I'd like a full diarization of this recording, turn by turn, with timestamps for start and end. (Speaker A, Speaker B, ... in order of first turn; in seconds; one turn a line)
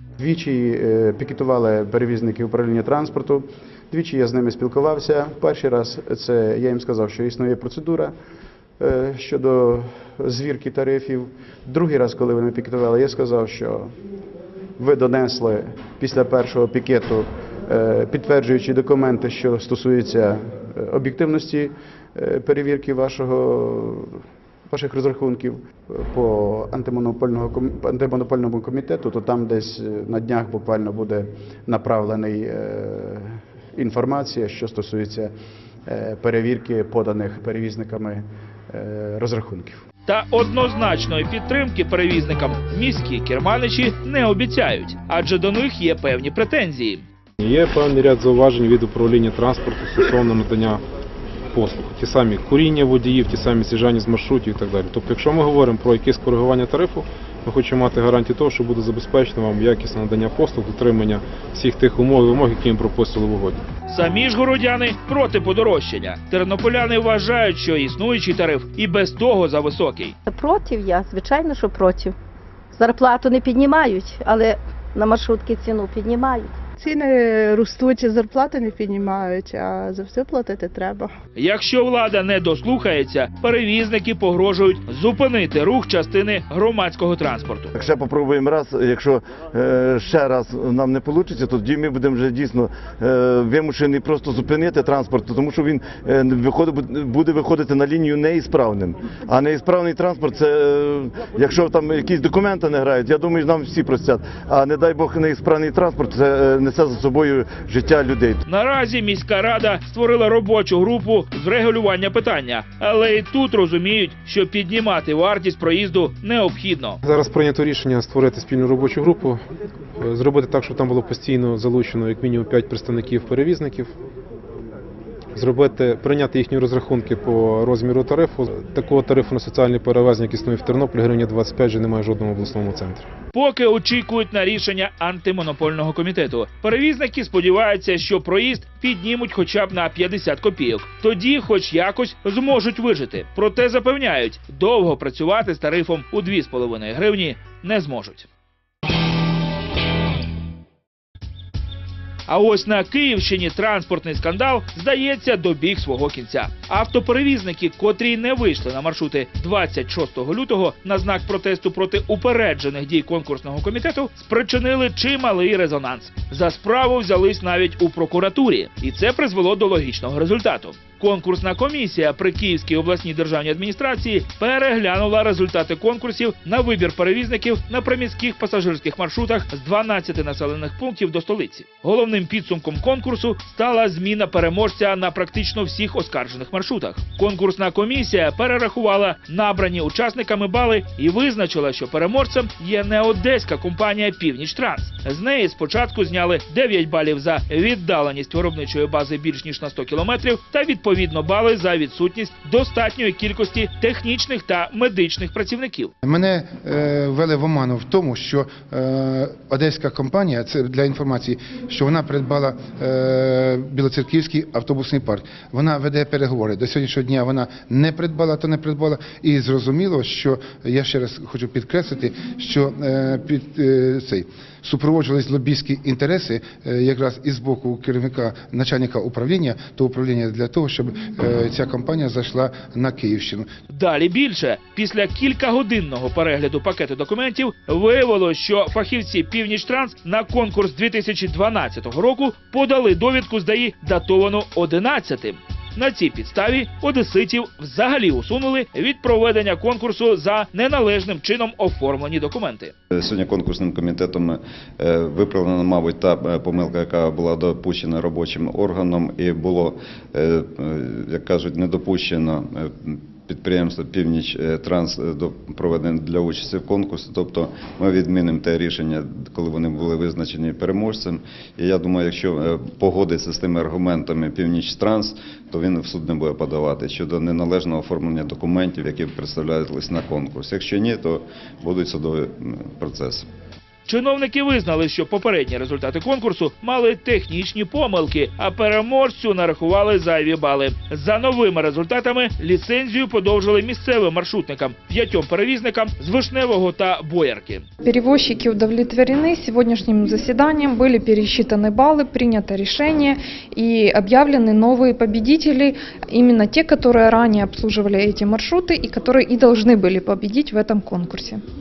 Speaker A: 0.2-8.1
Speaker A: 8.8-13.9
Speaker A: 14.8-35.3
Speaker A: 35.9-39.8
Speaker B: 40.1-47.0
Speaker C: 47.4-50.8
Speaker C: 51.5-63.6
Speaker B: 63.9-70.2
Speaker D: 70.3-72.1
Speaker D: 72.7-76.5
Speaker E: 76.8-81.1
Speaker B: 81.3-87.7
Speaker F: 87.8-108.4
Speaker B: 108.5-117.0
Speaker C: 117.0-119.4
Speaker C: 120.0-123.9
Speaker C: 125.3-133.1
Speaker B: 133.3-148.3
Speaker B: 152.3-205.9
Speaker G: 206.0-233.5
Speaker B: 233.7-252.7
Speaker H: 252.9-283.2
Speaker B: 283.9-297.7
Speaker I: 297.8-311.4